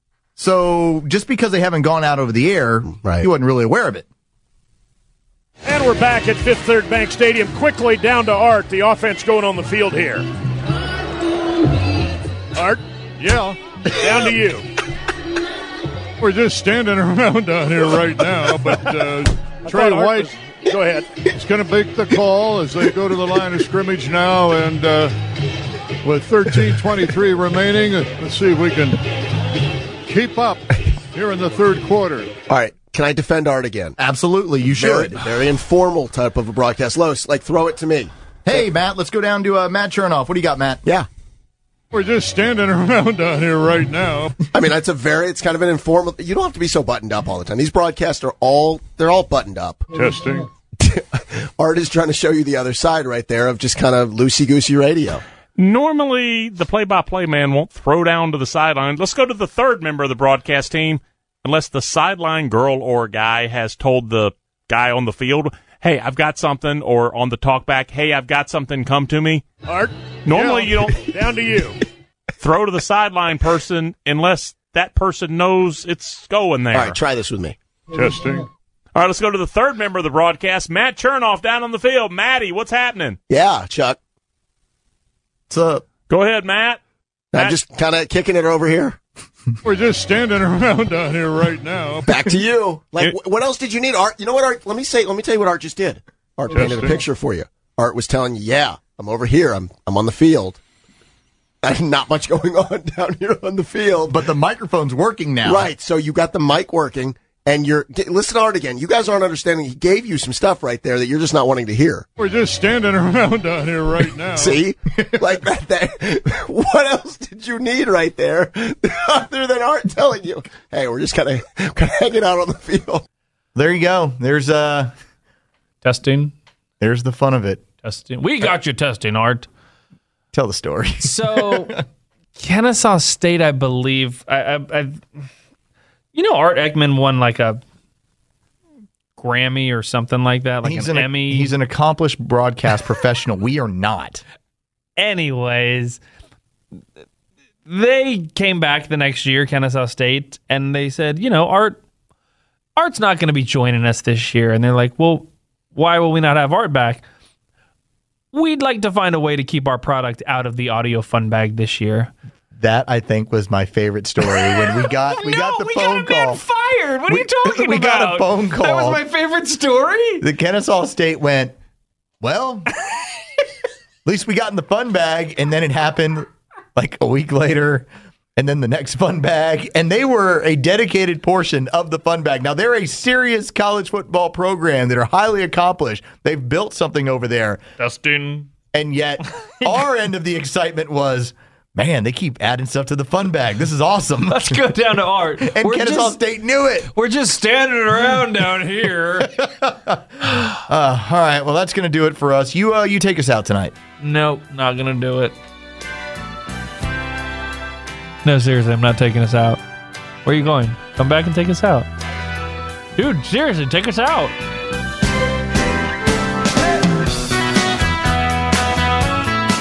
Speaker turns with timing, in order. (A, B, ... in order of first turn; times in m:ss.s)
0:00.4-0:04.0 A
0:02.9-0:03.3 B
0:05.6-0:10.3 C
0:12.5-0:12.8 C
0:13.2-0:13.6 D
0:13.9-0:14.6 C
0:16.2-0:20.3 D
0:19.6-0:21.2 C
0:21.3-0:25.1 D
0:26.0-0:29.0 D
0:30.0-0:32.4 D
0:32.5-0:34.0 B
0:34.0-0:35.2 A
0:34.6-0:38.1 B
0:38.4-0:40.8 A
0:41.9-0:44.4 D
0:44.5-0:49.9 B
0:49.9-0:50.5 D
0:50.8-0:55.2 B
0:55.6-1:09.5 E
1:09.6-1:11.8 C
1:10.2-1:11.1 E
1:12.4-1:17.0 E
1:16.7-1:17.6 B
1:17.9-1:18.5 D
1:18.9-1:23.2 E
1:23.3-1:24.0 B
1:25.5-1:25.8 A
1:26.1-1:26.8 E
1:27.3-1:29.0 B
1:27.3-1:27.6 E
1:29.6-1:32.4 D
1:32.0-1:40.6 B
1:36.5-1:37.0 D
1:41.6-1:44.2 B
1:44.0-1:45.7 A
1:45.4-1:52.0 B
1:52.2-1:54.6 D
1:54.3-2:03.0 B
2:03.5-2:04.9 A
2:05.8-2:06.3 F
2:06.8-2:07.6 A
2:07.8-2:09.5 F
2:10.3-2:11.8 A
2:11.0-2:11.7 F
2:12.4-2:15.0 F
2:16.1-2:17.6 F
2:19.2-2:21.5 F
2:20.6-2:24.2 A
2:25.0-2:26.0 F
2:27.6-2:31.8 F
2:32.8-2:37.0 F
2:38.3-2:42.1 F
2:42.6-2:46.4 A
2:44.2-2:50.3 F
2:47.1-2:49.0 A
2:50.2-2:51.5 A
2:52.2-2:52.7 A
2:54.0-3:07.6 A
3:07.8-3:08.5 F
3:08.7-3:14.6 A
3:09.4-3:09.8 F
3:14.3-3:16.2 F
3:15.4-3:16.9 A
3:16.8-3:19.3 F
3:19.2-3:23.8 A
3:24.0-3:25.4 F
3:28.2-3:29.6 F
3:30.2-3:31.9 F
3:33.0-3:34.3 F